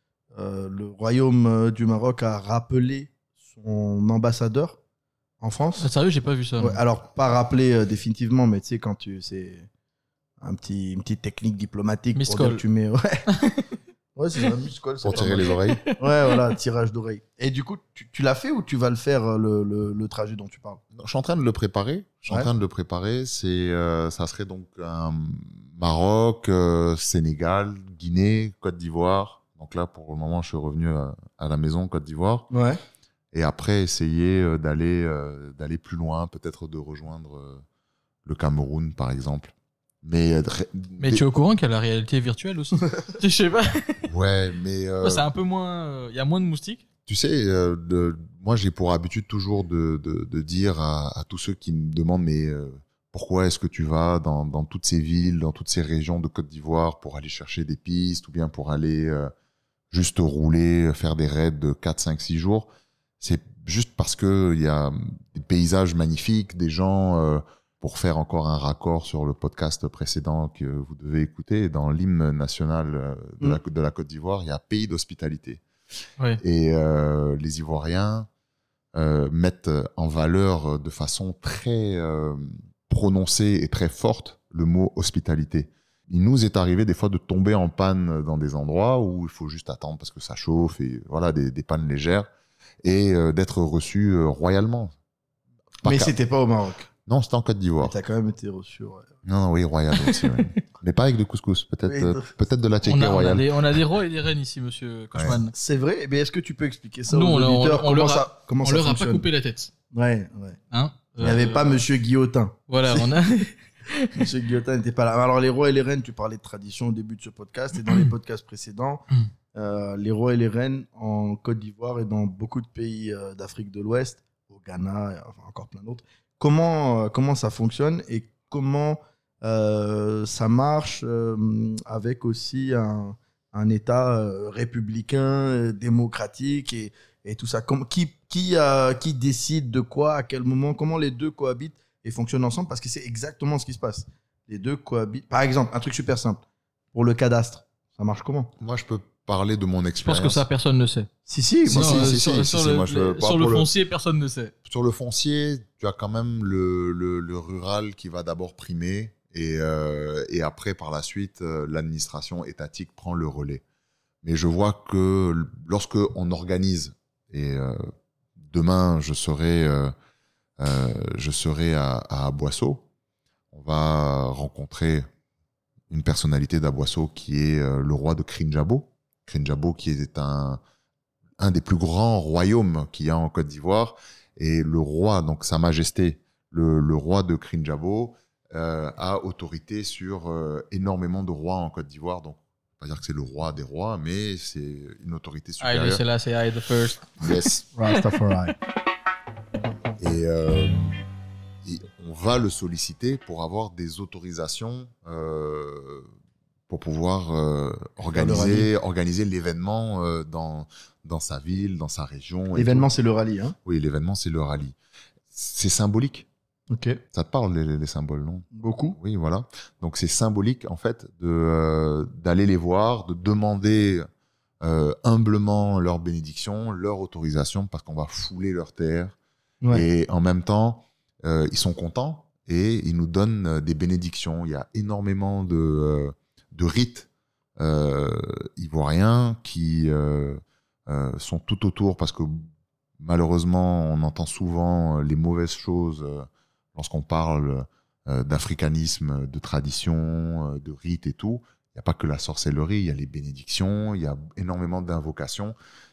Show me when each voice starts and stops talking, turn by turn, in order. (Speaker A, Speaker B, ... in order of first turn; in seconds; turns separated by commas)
Speaker A: 0.3-4.8, Speaker A: 5.4-5.9, Speaker B: 5.8-6.8, Speaker A: 6.6-9.7, Speaker A: 10.4-13.3, Speaker B: 12.2-12.6, Speaker A: 14.2-20.8, Speaker C: 15.0-15.8, Speaker B: 15.7-15.9, Speaker C: 20.9-32.5, Speaker A: 32.5-32.8, Speaker C: 33.3-37.6, Speaker C: 38.2-41.2, Speaker B: 41.0-44.0, Speaker C: 44.1-45.3, Speaker B: 45.0-46.8, Speaker C: 47.1-59.3, Speaker C: 59.9-62.7, Speaker C: 63.2-75.6, Speaker C: 76.4-78.3, Speaker C: 79.0-92.3, Speaker C: 92.8-94.9, Speaker C: 95.8-96.1, Speaker A: 95.8-96.9, Speaker C: 97.1-98.0, Speaker A: 97.8-99.1, Speaker C: 99.2-103.6, Speaker A: 101.9-102.3, Speaker B: 102.8-105.5, Speaker A: 105.5-109.3, Speaker B: 107.1-109.7, Speaker A: 109.9-110.6, Speaker B: 110.7-111.8, Speaker A: 111.2-113.1, Speaker B: 112.7-114.2, Speaker A: 114.2-146.4, Speaker A: 146.9-148.5, Speaker C: 148.6-150.4, Speaker B: 150.0-151.1, Speaker A: 151.3-152.2, Speaker C: 151.6-153.7, Speaker B: 151.7-154.5, Speaker C: 154.7-163.6, Speaker C: 164.2-167.9, Speaker C: 168.4-169.9, Speaker C: 170.6-172.9, Speaker C: 173.5-175.1, Speaker C: 175.9-180.6, Speaker C: 181.4-196.0, Speaker B: 195.6-197.1, Speaker C: 197.2-197.7, Speaker A: 197.8-198.6, Speaker C: 200.0-201.0, Speaker C: 201.6-206.1, Speaker C: 206.7-212.9, Speaker A: 208.2-208.7, Speaker A: 212.5-213.6, Speaker C: 213.7-214.8, Speaker C: 215.3-216.3, Speaker A: 216.7-217.0, Speaker C: 217.1-224.1, Speaker A: 218.5-219.0, Speaker C: 224.6-229.2, Speaker C: 229.7-237.1, Speaker C: 237.6-255.6